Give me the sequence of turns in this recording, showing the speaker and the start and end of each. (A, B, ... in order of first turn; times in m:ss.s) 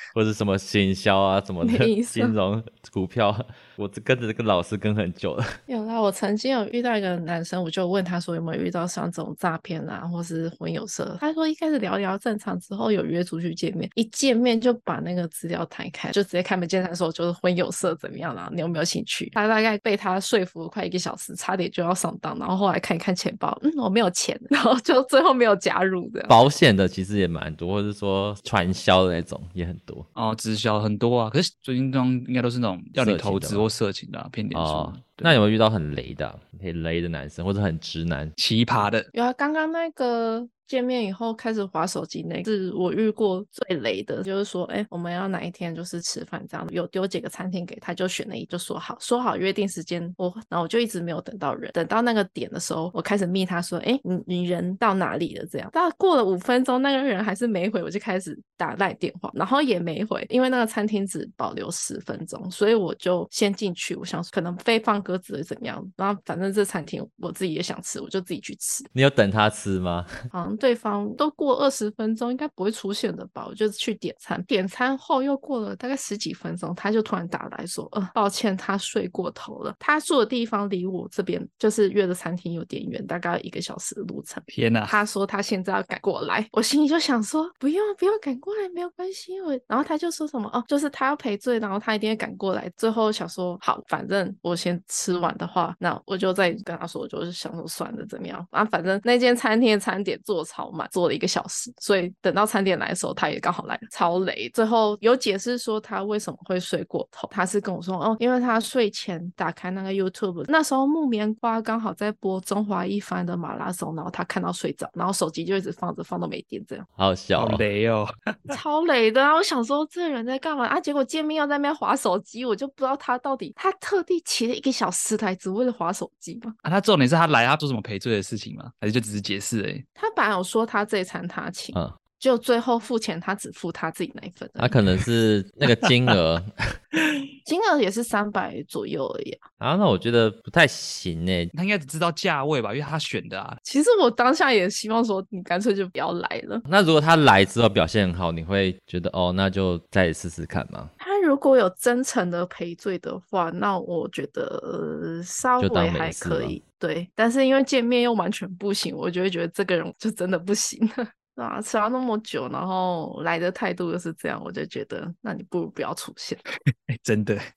0:00.1-0:05.5 A
0:01.6-0:02.3 B
0:05.7-0:26.4 B
0:26.3-0:30.0 A
0:30.2-0:35.4 C
0:33.0-0:33.6 A
0:34.5-0:38.3 A
0:38.4-0:39.1 C
0:39.1-1:08.9 B
1:08.9-1:10.1 A
1:10.3-1:56.8 B
1:24.5-1:25.0 C
1:57.0-1:57.6 A
1:57.4-1:58.5 C
1:58.5-2:06.6 B
2:06.6-2:09.8 C
2:10.0-2:14.8 B
2:14.6-2:16.5 A
2:17.4-2:19.4 B
2:19.6-2:21.5 A
2:21.5-2:23.6 C
2:23.6-2:26.6 B
2:26.7-2:30.9 A
2:31.0-2:46.4 B
2:35.6-2:36.6 A
2:46.9-2:47.4 C